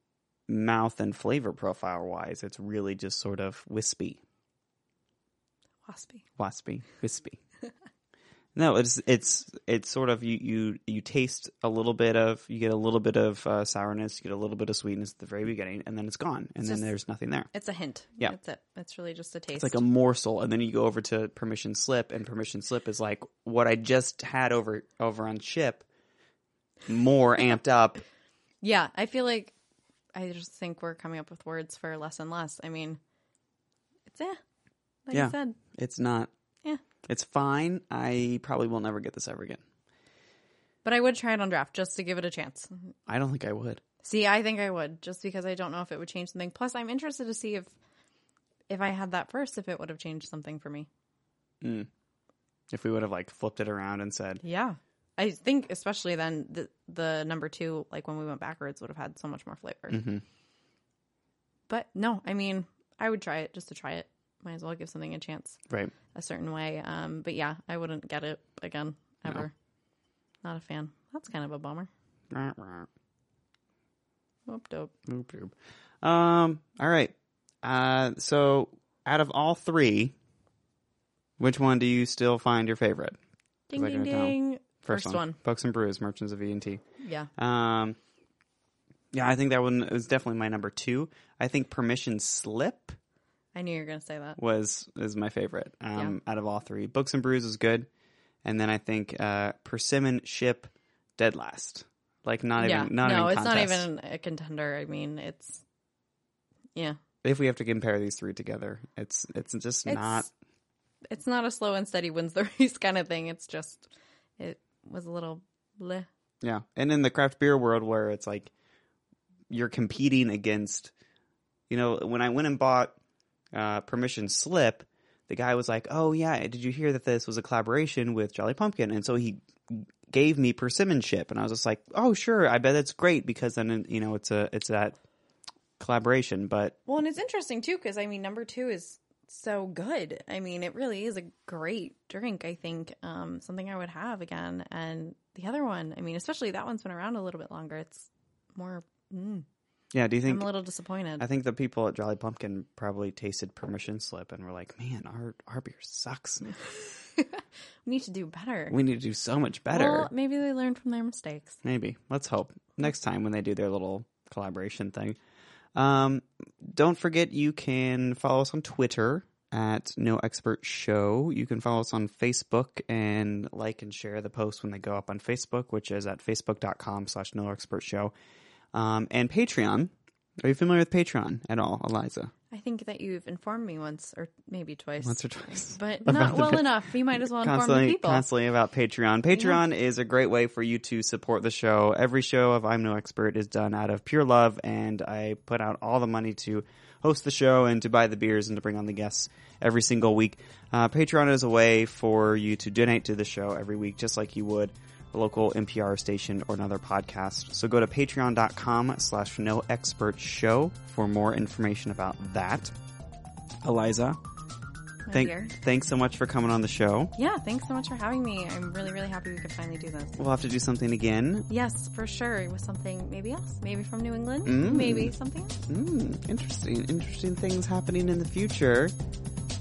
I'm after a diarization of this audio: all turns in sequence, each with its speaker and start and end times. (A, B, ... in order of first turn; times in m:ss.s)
0:00.5-0:04.2 A
0:05.9-0:06.3 B
0:06.4-0:07.4 A
0:08.6-0:17.5 A
0:16.6-0:16.9 B
0:17.5-0:19.8 B
0:19.6-0:25.9 A
0:26.9-0:28.0 A
0:28.6-0:29.6 B
0:30.2-0:33.0 B
0:34.1-0:34.4 B
0:35.1-0:35.6 B
0:35.1-0:36.3 A
0:37.0-0:39.6 A
0:40.8-0:42.7 B
0:43.1-0:43.8 A
0:44.0-0:47.7 B
0:48.7-0:50.9 B
0:51.6-0:51.9 A
0:52.7-0:54.4 A
0:54.4-1:00.1 B
0:59.9-1:00.2 A
1:01.7-1:05.6 B
1:06.1-1:09.5 B
1:10.4-1:11.9 B
1:12.3-1:12.9 A
1:14.5-1:14.9 B
1:15.1-1:20.1 A
1:21.4-1:23.2 A
1:23.7-1:25.4 B
1:23.7-1:26.8 A
1:27.0-1:27.3 B
1:27.4-1:28.0 A
1:29.1-1:33.0 A
1:33.6-1:34.4 B
1:34.4-1:37.9 A
1:38.4-1:43.9 A
1:42.6-1:45.6 B
1:47.2-1:50.3 A
1:49.9-1:50.3 B
1:51.1-1:56.1 B
1:56.4-1:58.5 A
1:59.5-2:00.9 A
2:01.7-2:03.0 A
2:03.5-2:15.0 A
2:15.8-2:16.8 A
2:16.9-2:29.5 B
2:29.9-2:30.5 A
2:30.2-2:31.2 B
2:31.2-2:36.6 A
2:36.8-2:38.8 B
2:38.7-2:40.1 A
2:39.7-2:41.6 B
2:41.6-2:45.2 A
2:45.8-2:58.1 A
2:58.7-3:02.3 A
3:02.5-3:08.3 B
3:05.0-3:32.7 A
3:09.4-3:09.6 B
3:33.6-3:34.2 A
3:35.1-3:35.5 B
3:35.1-3:37.1 A
3:37.2-3:40.2 B
3:40.2-3:41.5 A
3:41.5-3:45.7 B
3:44.4-3:45.2 A
3:45.7-3:49.0 A